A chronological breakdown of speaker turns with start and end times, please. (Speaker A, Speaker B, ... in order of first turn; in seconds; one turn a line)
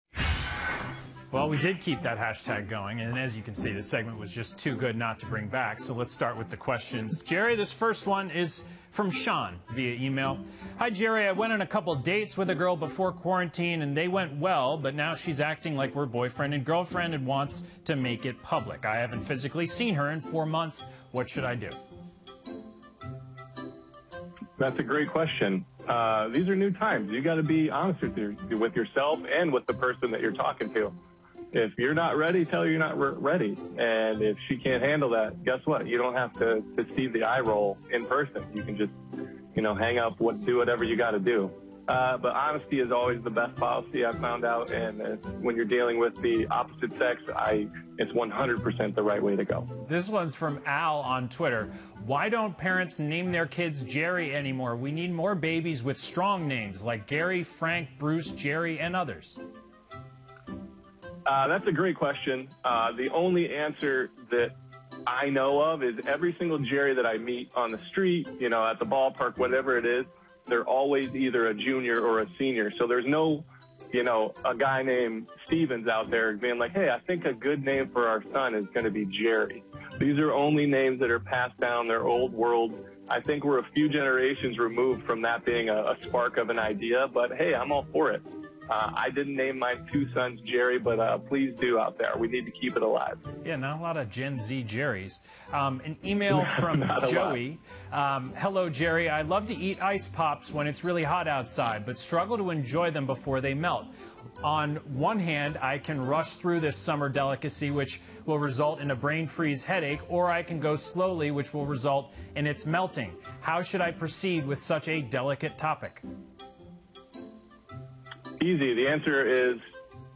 Speaker A: 1.3-21.8
Speaker B: 24.6-30.9
Speaker B: 31.5-38.9
Speaker B: 39.5-49.7
Speaker A: 49.9-59.4
Speaker B: 61.3-64.5
Speaker B: 65.1-93.2
Speaker A: 93.4-116.0
Speaker B: 96.4-97.4
Speaker B: 118.4-119.6